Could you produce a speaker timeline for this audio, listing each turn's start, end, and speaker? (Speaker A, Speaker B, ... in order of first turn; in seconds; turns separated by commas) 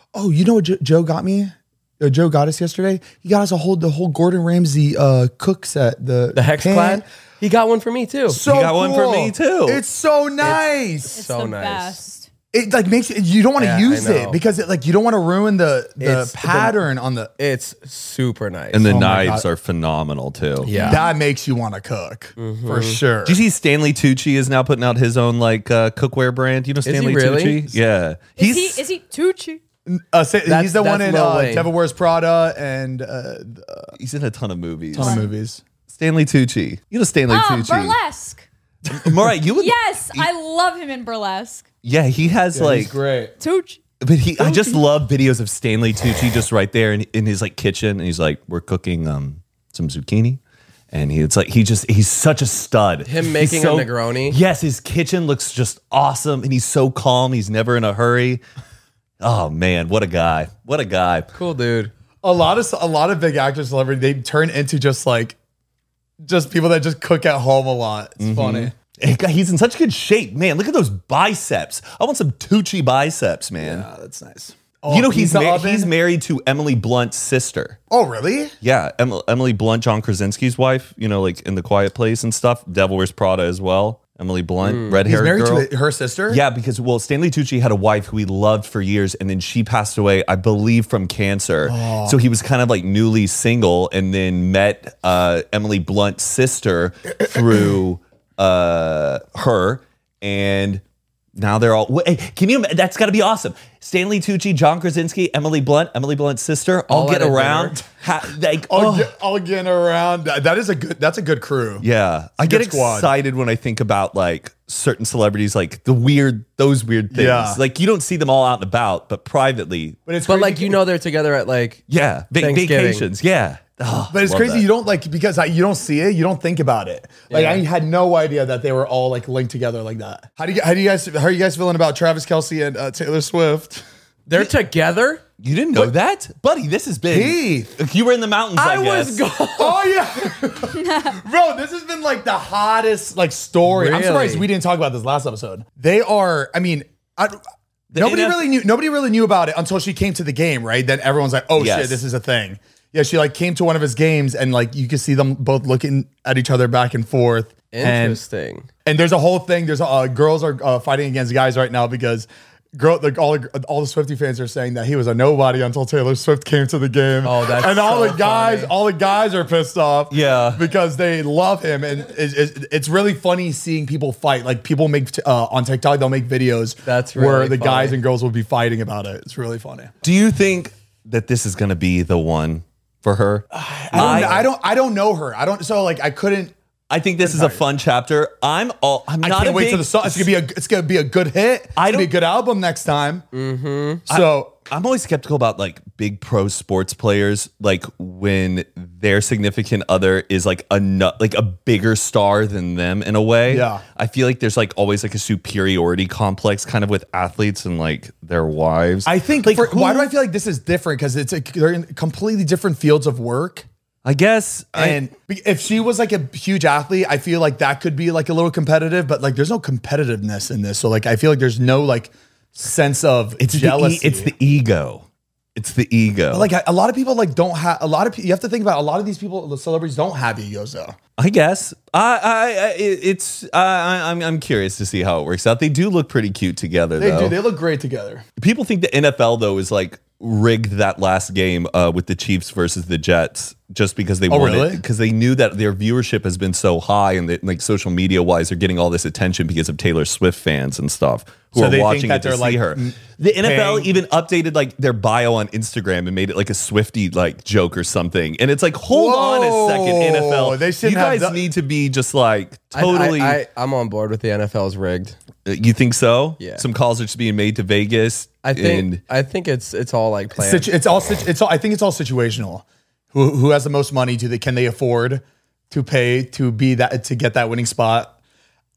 Speaker A: 0.1-7.0, Speaker B: 6.3-8.4, Speaker A: 8.3-11.1, Speaker C: 8.4-9.8, Speaker B: 10.4-12.0, Speaker D: 11.1-12.3, Speaker A: 12.5-17.3, Speaker B: 13.6-14.4, Speaker B: 16.0-16.8, Speaker B: 17.4-18.8, Speaker C: 18.7-20.7, Speaker A: 18.8-19.4, Speaker B: 20.6-21.1, Speaker D: 20.7-21.1, Speaker A: 20.8-23.4, Speaker B: 22.4-23.0, Speaker C: 23.2-28.8, Speaker B: 26.8-27.7, Speaker D: 28.4-29.6, Speaker A: 29.9-33.9, Speaker B: 30.4-31.7, Speaker C: 34.0-35.2, Speaker A: 34.9-35.6, Speaker D: 35.0-35.3, Speaker C: 35.9-38.0, Speaker D: 37.3-38.5, Speaker C: 38.9-40.3, Speaker D: 39.5-41.6, Speaker C: 41.8-43.0, Speaker A: 42.5-43.3, Speaker D: 43.4-43.8, Speaker C: 44.0-50.4, Speaker C: 50.9-58.4, Speaker B: 53.0-54.4, Speaker C: 59.2-61.3, Speaker B: 61.3-61.9, Speaker A: 62.2-65.3, Speaker A: 66.2-68.7, Speaker C: 68.2-73.9, Speaker A: 73.6-75.9, Speaker C: 74.9-77.8, Speaker A: 77.9-78.5, Speaker C: 78.6-85.7, Speaker B: 84.6-85.0, Speaker A: 85.0-86.4, Speaker C: 86.3-100.8, Speaker A: 91.6-92.2, Speaker C: 101.3-109.1, Speaker B: 106.9-107.8, Speaker A: 108.7-111.8, Speaker C: 111.8-120.0, Speaker A: 112.4-113.1, Speaker A: 117.1-117.6, Speaker A: 120.0-120.8, Speaker B: 120.2-121.8, Speaker C: 121.9-124.7, Speaker B: 122.4-123.0, Speaker A: 124.1-134.5, Speaker B: 127.3-127.6, Speaker B: 134.3-135.2, Speaker C: 135.4-139.2, Speaker A: 137.1-137.7, Speaker B: 138.6-140.0, Speaker A: 139.6-147.4, Speaker D: 140.7-141.1, Speaker B: 143.7-144.4, Speaker C: 147.9-148.4, Speaker A: 147.9-158.2, Speaker C: 151.6-152.0, Speaker B: 157.7-158.7, Speaker A: 158.8-179.9, Speaker B: 167.2-168.7, Speaker C: 170.1-170.6, Speaker B: 176.8-178.0, Speaker C: 180.0-184.5, Speaker A: 183.5-186.5, Speaker B: 184.0-184.2, Speaker C: 186.9-190.3, Speaker A: 187.2-187.6, Speaker A: 189.2-193.2, Speaker C: 191.8-192.1, Speaker B: 193.3-194.0, Speaker A: 194.1-194.5, Speaker C: 194.1-210.1, Speaker A: 203.5-203.8, Speaker A: 209.0-213.7, Speaker C: 214.0-215.0, Speaker A: 214.7-224.3, Speaker C: 223.4-225.0, Speaker C: 225.6-226.5, Speaker A: 226.3-230.9, Speaker C: 231.2-237.4, Speaker A: 237.0-238.2, Speaker C: 238.4-263.4, Speaker A: 244.3-244.8, Speaker A: 251.5-253.9, Speaker A: 258.9-261.4, Speaker B: 262.7-265.2, Speaker C: 265.4-269.0, Speaker B: 266.4-266.6, Speaker B: 268.4-270.7, Speaker A: 270.4-278.1